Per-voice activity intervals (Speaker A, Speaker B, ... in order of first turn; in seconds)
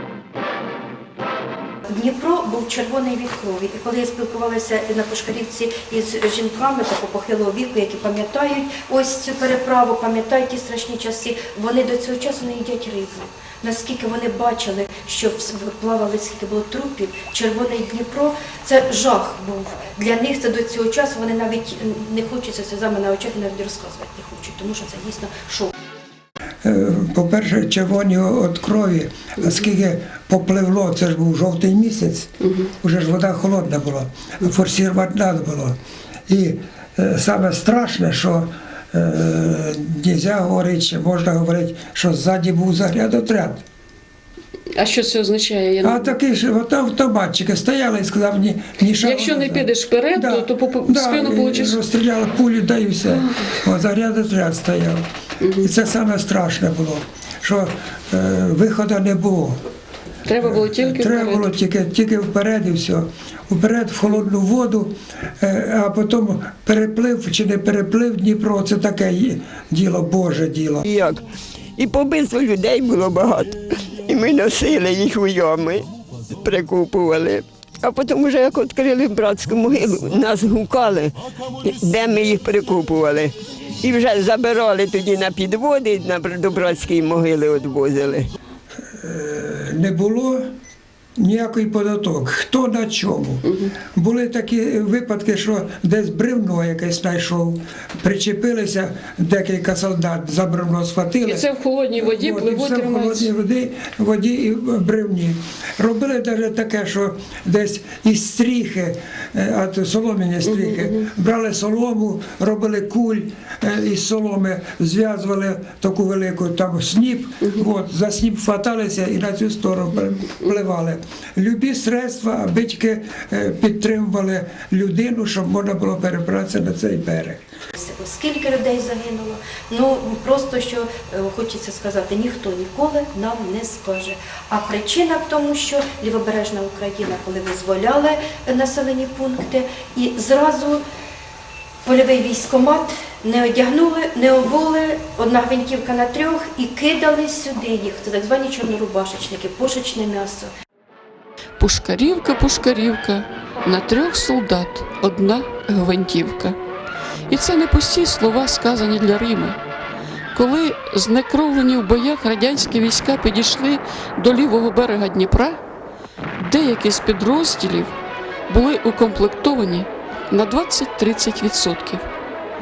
Speaker A: 1.9-25.7, 127.8-140.8, 141.8-150.5
Speaker B: 26.6-32.3, 32.8-35.8, 36.3-43.6, 45.8-55.0, 55.6-59.6, 60.4-70.8, 88.9-90.5, 91.2-127.4
Speaker C: 32.4-32.7, 44.7-46.1, 49.0-51.8, 53.0-53.6, 55.4-55.7, 60.2-61.6, 93.5-93.7, 101.2-103.3, 110.4-111.1, 117.4-117.7, 120.0-120.6, 151.6-156.6, 157.3-159.6, 160.3-165.6, 166.4-167.9, 168.5-172.1
Speaker D: 70.8-71.2, 71.8-75.8, 76.4-88.3